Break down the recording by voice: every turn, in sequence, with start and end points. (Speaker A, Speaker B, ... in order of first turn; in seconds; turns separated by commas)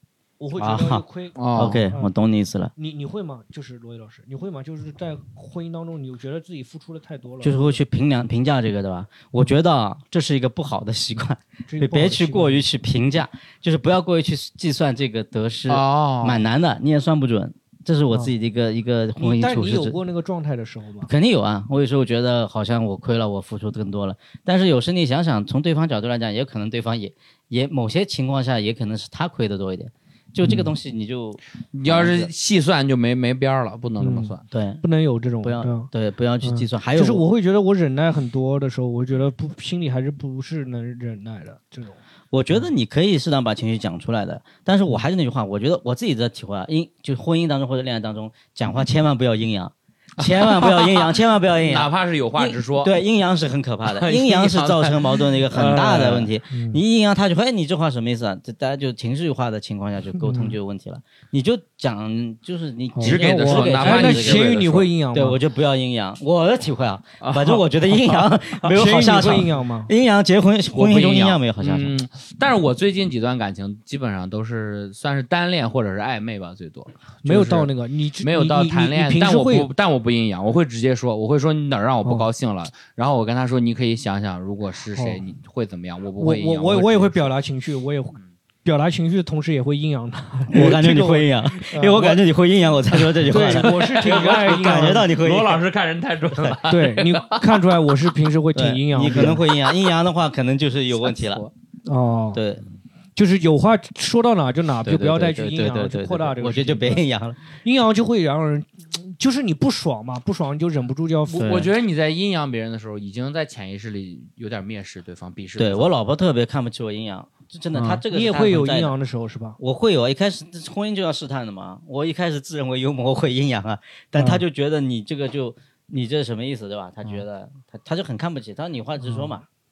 Speaker A: 0.4-2.1, Speaker B: 0.6-1.0, Speaker C: 1.4-1.8, Speaker B: 1.6-2.7, Speaker A: 2.8-7.8, Speaker B: 7.4-20.0, Speaker A: 11.7-12.6, Speaker C: 15.7-16.4, Speaker A: 19.2-21.1, Speaker B: 21.1-32.3, Speaker A: 30.4-30.7, Speaker C: 31.7-34.4, Speaker A: 34.0-35.9, Speaker B: 34.5-34.8, Speaker B: 35.4-37.2, Speaker A: 36.4-42.0, Speaker B: 42.3-72.0, Speaker C: 50.2-53.0, Speaker C: 53.9-56.3, Speaker A: 56.5-56.8, Speaker A: 60.2-60.5, Speaker A: 62.9-65.4, Speaker C: 63.0-64.9, Speaker C: 67.2-68.3, Speaker A: 68.7-69.9, Speaker C: 70.7-77.7, Speaker A: 77.2-79.7, Speaker C: 78.2-87.3, Speaker A: 84.9-85.2, Speaker A: 86.2-92.2, Speaker B: 90.5-95.6, Speaker A: 93.3-95.1, Speaker C: 93.3-97.7, Speaker A: 96.7-99.4, Speaker B: 98.5-101.4, Speaker C: 101.0-101.5, Speaker A: 101.9-102.4, Speaker B: 102.3-102.6, Speaker A: 103.2-107.0, Speaker B: 104.8-107.4, Speaker A: 107.6-111.5, Speaker C: 111.3-115.9, Speaker B: 111.4-111.7, Speaker B: 115.6-119.0, Speaker C: 117.8-118.0, Speaker A: 118.1-119.6, Speaker B: 119.6-129.5, Speaker A: 124.2-124.4